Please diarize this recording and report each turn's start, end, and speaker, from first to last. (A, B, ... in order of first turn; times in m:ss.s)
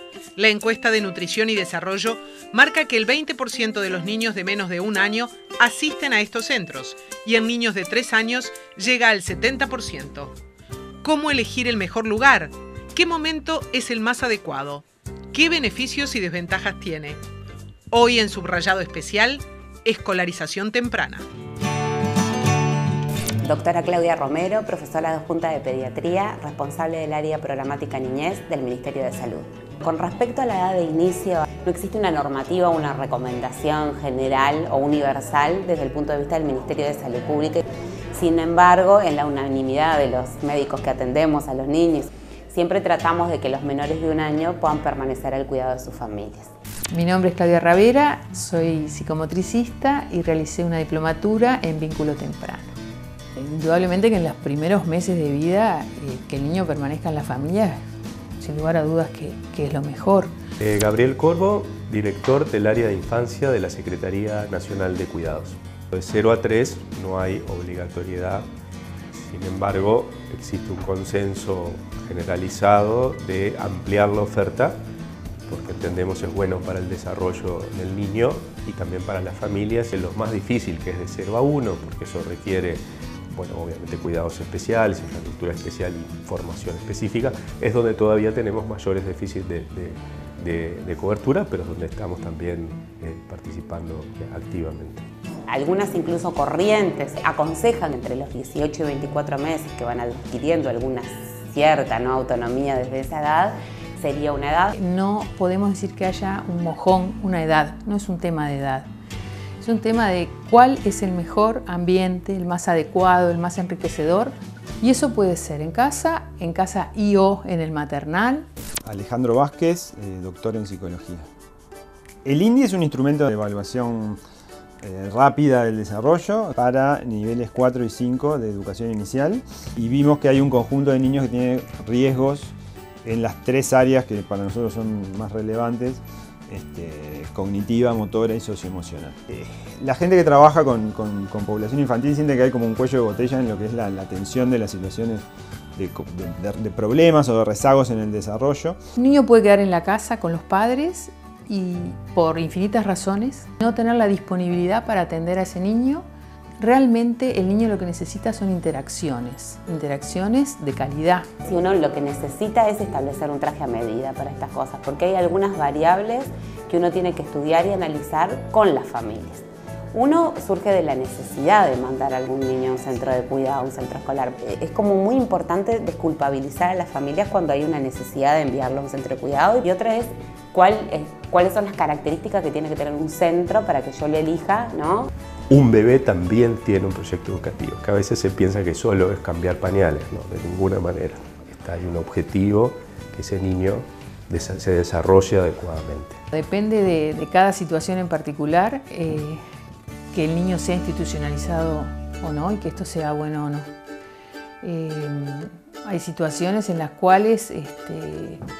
0:00.4-0:10.3 A
0:11.0-0:17.2 A
0:17.9-0:21.3 A
0:23.4-0:46.5 B
0:46.9-0:52.8 C
0:53.3-0:57.8 C
0:58.4-1:00.3 C
1:00.6-1:08.5 D
1:09.3-1:14.8 D
1:15.5-1:22.8 D
1:23.3-1:35.0 D
1:35.5-1:44.7 B
1:44.7-1:48.9 C
1:49.6-1:58.4 C
1:58.8-2:01.3 E
2:02.2-2:04.2 E
2:04.8-2:25.2 E
2:25.8-2:28.8 E
2:29.0-2:36.0 C
2:36.6-2:41.3 C
2:41.4-3:05.1 B
3:05.5-3:16.2 D
3:16.3-3:19.4 C
3:20.1-3:23.7 C
3:24.6-3:28.4 C